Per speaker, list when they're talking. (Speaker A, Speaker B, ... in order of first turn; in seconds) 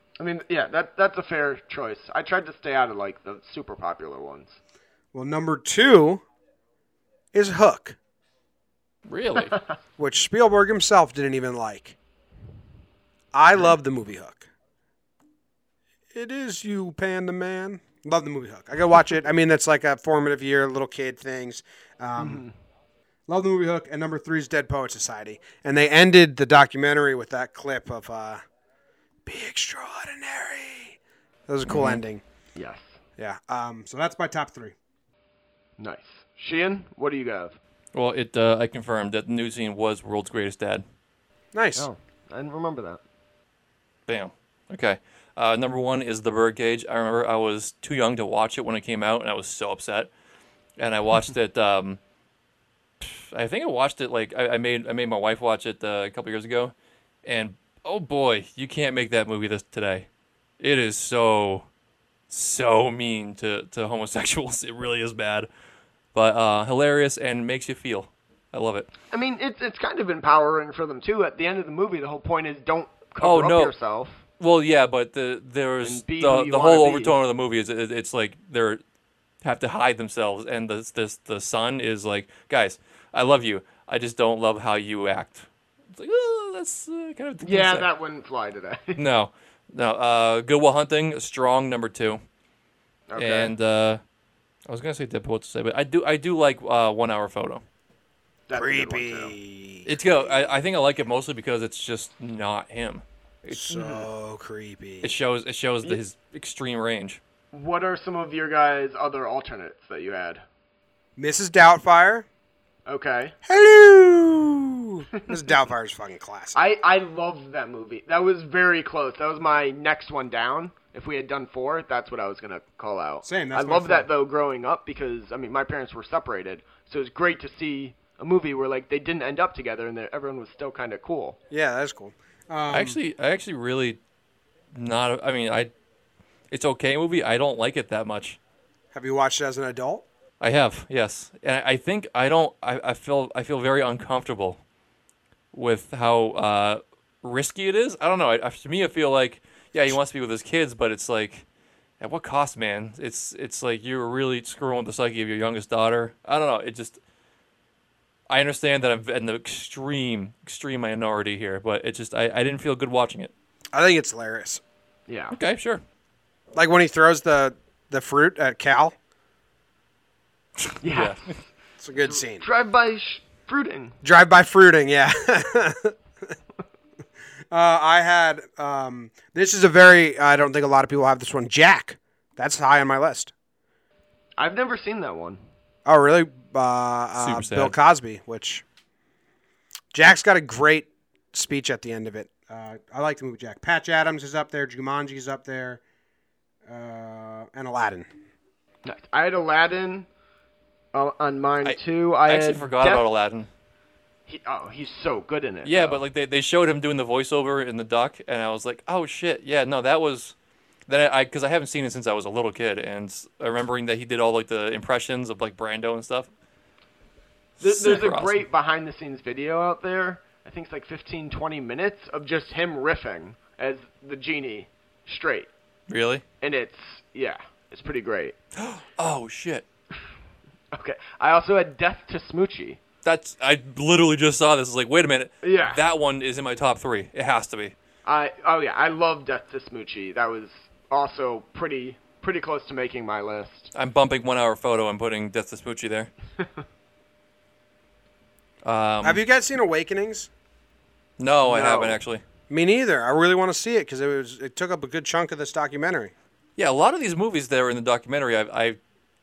Speaker A: 0.2-4.6, 22.2-22.5, 31.7-32.0, 32.6-33.0, 35.8-37.6, 41.8-43.0, 69.1-74.2, 75.8-77.2, 87.4-89.0, 93.1-93.5, 98.5-99.3, 103.7-104.0, 107.5-110.4, 112.9-113.4, 116.5-131.4, 165.1-165.3, 170.8-174.0, 184.4-185.4, 198.8-200.1, 200.9-203.1, 204.3-206.0, 217.6-225.5, 226.4-228.4, 230.7-232.8, 235.4-235.8, 238.1-243.7, 251.4-252.0
Speaker B: 5.1-6.2, 7.3-8.0, 10.0-12.0, 13.3-14.5, 16.1-22.5, 23.3-28.4, 29.3-32.2, 33.2-34.8, 41.5-41.9, 98.5-99.9, 103.5-105.1, 111.2-112.3, 113.5-116.6, 123.2-124.1, 131.5-133.0, 138.9-140.1, 163.7-164.6, 166.6-169.0, 171.8-172.5, 174.0-176.0, 177.5-183.3, 185.9-188.6, 189.9-195.8, 196.7-198.1, 249.0-250.3, 252.5-256.1
Speaker C: 9.1-9.6, 37.9-40.8, 44.1-50.1, 50.8-52.0, 53.0-56.7, 57.2-60.1, 60.6-61.7, 62.3-65.5, 66.1-68.9, 73.2-73.7, 74.4-78.8, 79.4-87.9, 89.0-92.2, 93.2-94.0, 94.7-97.6, 99.9-103.6, 105.0-107.2, 132.7-134.0, 134.8-135.7, 136.5-138.4, 140.4-144.6, 145.5-151.4, 152.0-157.0, 158.3-163.3, 165.3-165.8, 170.9-171.3, 187.2-187.8, 201.7-203.5, 205.7-210.3, 210.9-216.3, 217.6-218.4, 225.9-226.2, 228.6-229.6, 233.0-237.7, 243.7-246.1, 248.6-249.2, 251.2-252.2, 256.6-258.8